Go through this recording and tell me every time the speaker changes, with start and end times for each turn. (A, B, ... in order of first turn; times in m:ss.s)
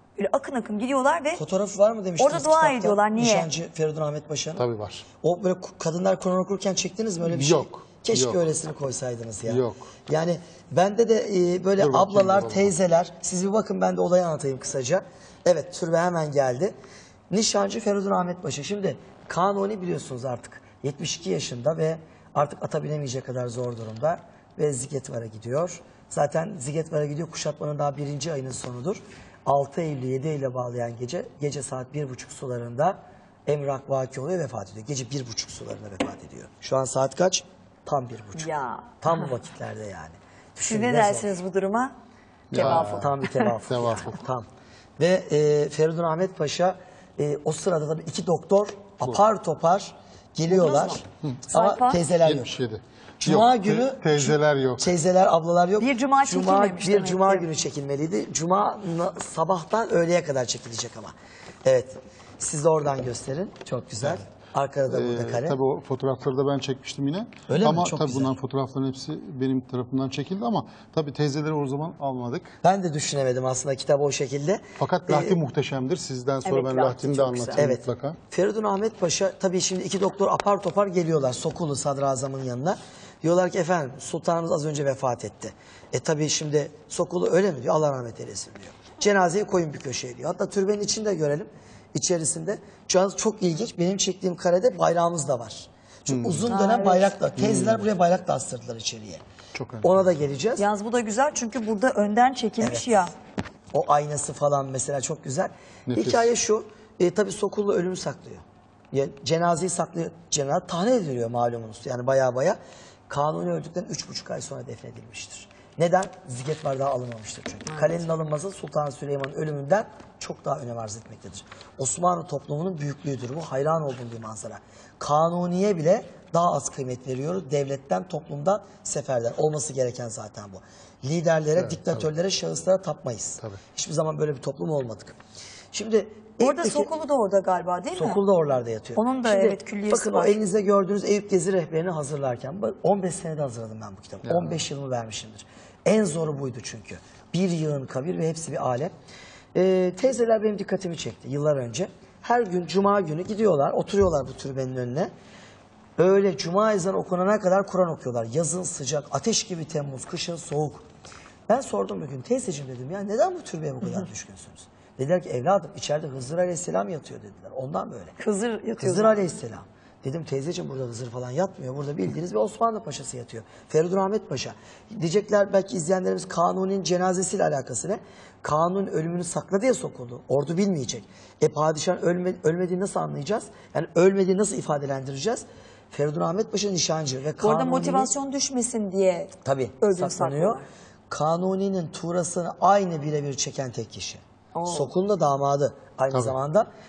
0:00.2-0:01.4 A
0:01.4-0:04.7 B
0:02.2-0:03.5 A
0:04.6-0:05.1 C
0:05.2-0:16.7 B
0:07.2-0:08.4 C
0:09.5-0:09.9 C
0:11.8-0:12.7 C
0:17.3-0:38.5 B
0:38.4-0:39.3 A
0:39.0-0:41.4 B
0:40.6-0:42.0 A
0:42.5-0:43.1 C
0:42.5-0:43.5 A
0:42.6-0:44.5 B
0:43.7-0:44.2 C
0:45.0-0:52.6 B
0:50.5-0:52.0 A
0:52.2-0:55.0 C
0:53.2-1:05.6 B
0:55.8-0:57.5 A
1:04.9-1:12.5 C
1:07.5-1:08.4 B
1:12.6-1:15.4 B
1:14.8-1:18.2 C
1:16.4-1:17.6 A
1:17.6-1:39.2 B
1:36.1-1:36.5 C
1:36.5-1:37.2 A
1:37.4-1:37.9 C
1:39.5-1:40.1 C
1:39.8-1:40.7 B
1:40.6-1:43.1 A
1:42.6-1:42.9 B
1:43.7-1:52.6 B
1:45.9-1:46.3 C
1:53.1-2:15.2 B
1:57.7-1:58.1 A
2:11.6-2:12.1 C
2:15.7-2:16.9 B
2:16.4-2:18.2 A
2:17.9-2:28.9 B
2:19.0-2:20.4 A
2:24.3-2:24.6 C
2:29.5-2:35.1 B
2:36.0-2:40.8 B
2:41.5-2:48.2 B
2:48.2-2:49.3 A
2:48.8-3:08.1 B
3:07.4-3:10.7 A
3:09.4-3:16.7 B
3:14.6-3:14.9 A